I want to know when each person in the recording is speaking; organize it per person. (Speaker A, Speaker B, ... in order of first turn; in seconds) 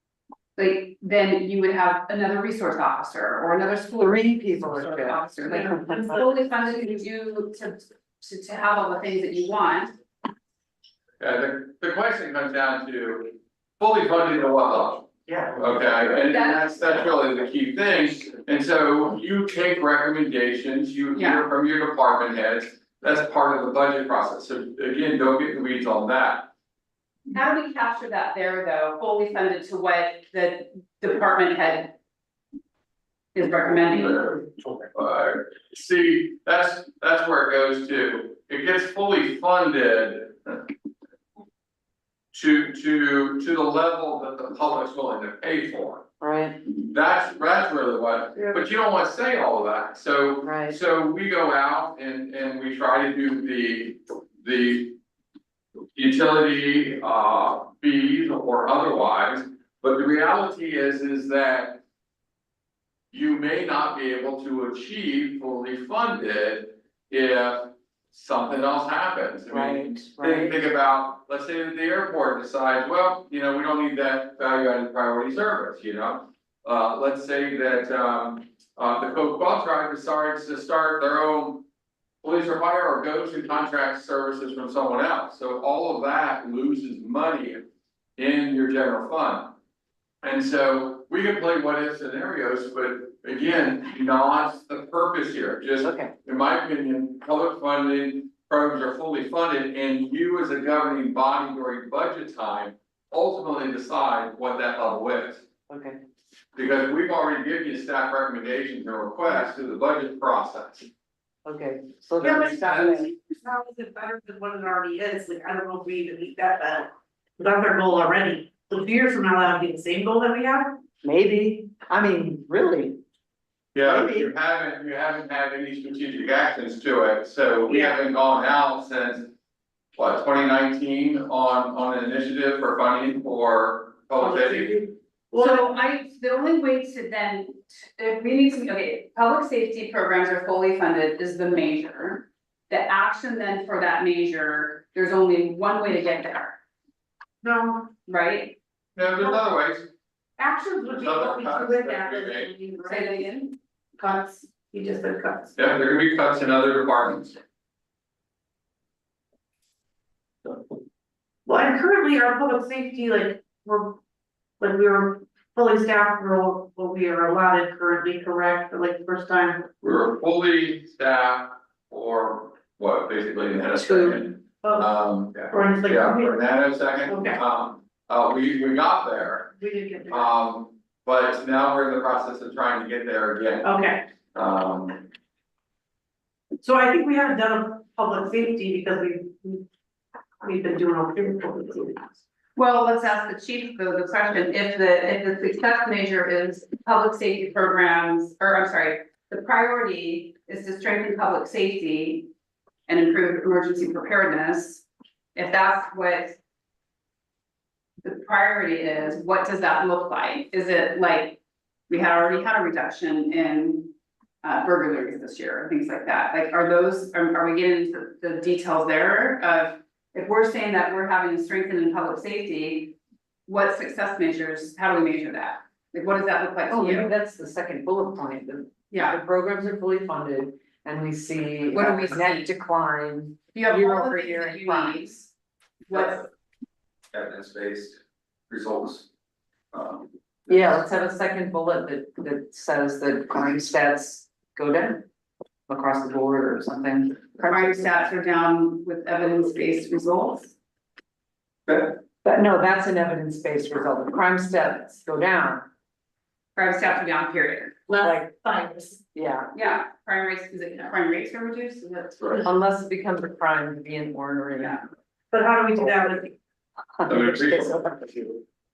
Speaker A: 0.6-9.9, 16.2-16.7, 21.1-21.5, 27.3-32.0, 33.4-34.3, 135.4-146.6, 148.1-148.6, 152.8-153.6, 192.6-202.3, 202.9-206.4, 208.0-222.9, 223.5-227.1, 228.9-229.2, 231.7-232.5, 233.5-235.3, 235.9-236.2, 247.4-250.6, 256.6-257.8, 259.5-262.4
Speaker B: 4.0-6.2, 46.2-46.6, 50.4-50.8, 69.5-70.6, 95.8-96.1, 105.7-106.0, 111.5-113.1, 121.0-123.0, 123.8-124.3, 173.8-174.2, 226.7-235.1, 240.5-245.0, 245.7-247.3, 252.2-255.6, 258.0-258.3, 259.1-259.5, 262.4-264.8, 267.0-268.2
Speaker C: 5.5-6.2, 112.2-120.8, 127.7-128.0, 134.2-135.7, 147.4-147.9, 150.4-153.3, 154.0-155.5, 161.5-164.0, 164.6-169.7, 174.6-174.9, 175.5-176.4, 177.1-177.4, 179.6-180.3, 183.6-184.0, 186.6-189.7, 190.4-192.1, 257.9-259.0, 265.3-266.4
Speaker D: 11.2-26.5, 34.0-40.6, 42.3-46.0, 46.7-55.0, 56.0-61.8, 63.1-81.6, 82.2-87.6, 88.2-89.5, 90.2-105.5, 106.6-110.9, 123.7-129.3, 129.9-134.8, 149.0-149.9, 150.9-152.5, 155.6-157.4, 169.8-179.6, 180.1-183.8, 184.3-185.1, 237.1-239.1, 239.7-240.1, 267.1-268.0